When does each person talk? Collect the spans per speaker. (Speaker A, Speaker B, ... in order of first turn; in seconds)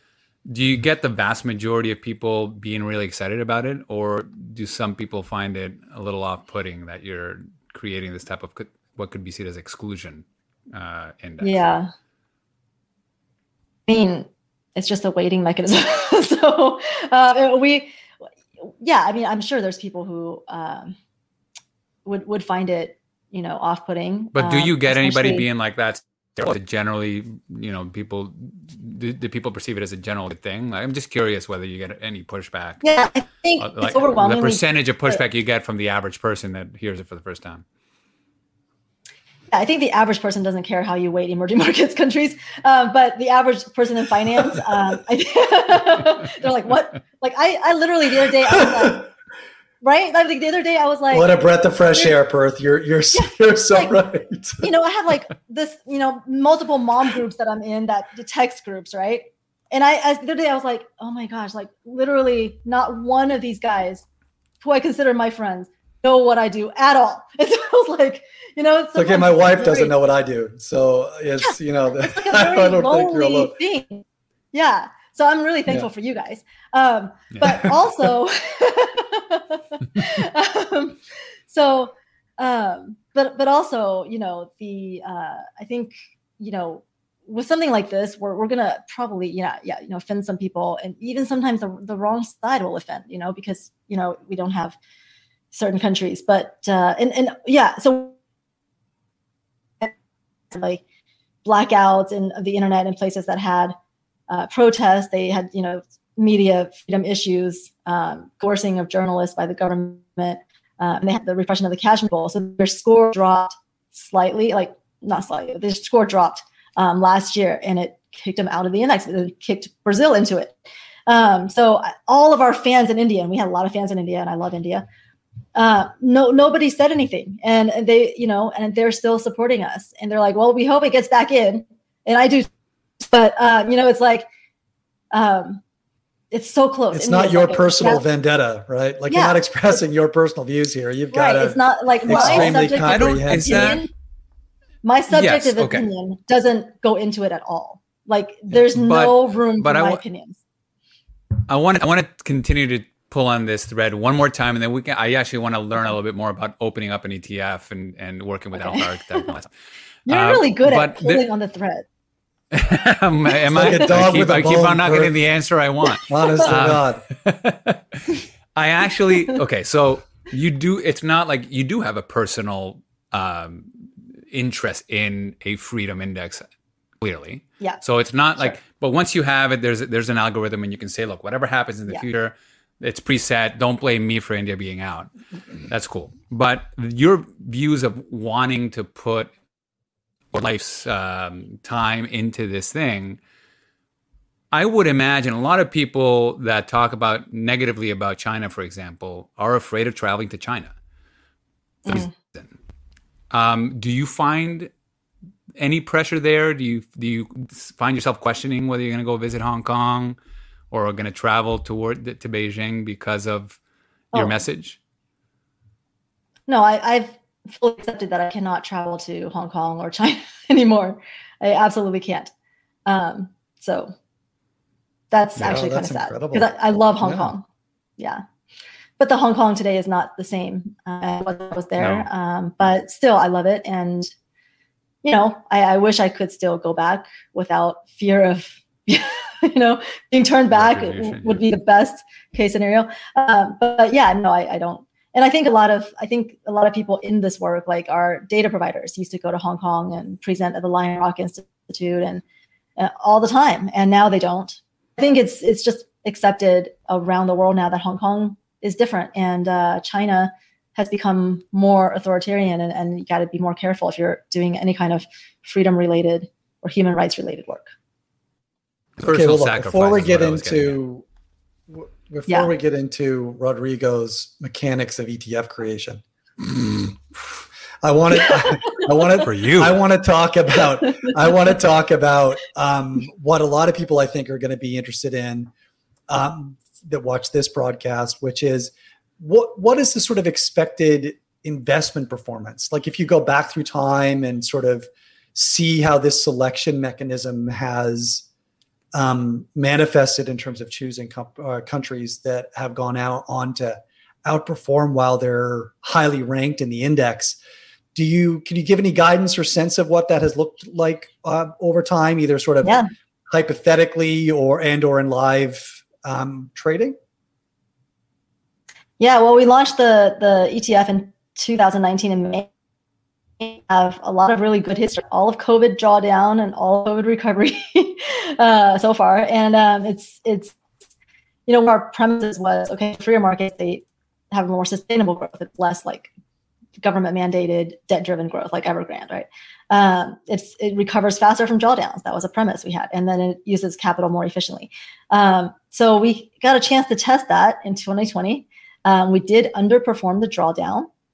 Speaker A: 0.5-11.8, 24.4-32.8, 33.6-37.6, 77.3-77.7, 142.1-143.9, 145.1-145.9, 148.7-150.0, 151.5-159.5, 160.1-161.2, 162.5-176.4, 177.0-185.1, 185.7-189.3, 190.3-193.2, 194.5-200.7, 201.9-202.5, 203.3-204.7, 205.6-210.2, 210.7-213.6, 214.1-214.8, 231.8-232.1, 240.5-241.4, 269.0-270.8, 279.2-279.8
Speaker B: 11.4-11.9, 13.9-17.9, 18.6-20.9, 22.1-25.4, 32.8-35.2, 39.5-49.1, 49.8-52.1, 53.1-53.9, 54.6-64.1, 64.6-69.9, 72.0-81.0, 81.5-94.8, 95.5-98.2, 100.5-100.8, 101.5-103.8, 104.3-120.5, 121.1-124.8, 125.5-132.5, 133.1-134.3, 135.1-135.6, 136.3-138.0, 139.1-139.4, 141.1-143.9, 144.8-150.4, 158.6-159.3, 160.1-161.8, 201.8-202.1, 214.1-214.4, 216.5-222.3, 222.9-223.9, 225.1-227.4, 228.0-228.2, 229.0-234.1, 235.0-252.2, 252.8-267.7, 312.6-312.9, 319.0-322.5, 323.4-330.6, 331.5-336.1, 336.8-350.9
Speaker C: 51.1-54.6, 69.0-73.6, 136.9-143.8, 163.5-165.1, 166.1-167.0, 225.4-226.5, 227.0-227.3, 269.0-271.1, 271.7-277.0, 277.8-285.5, 286.1-298.3, 298.9-307.4, 307.9-317.0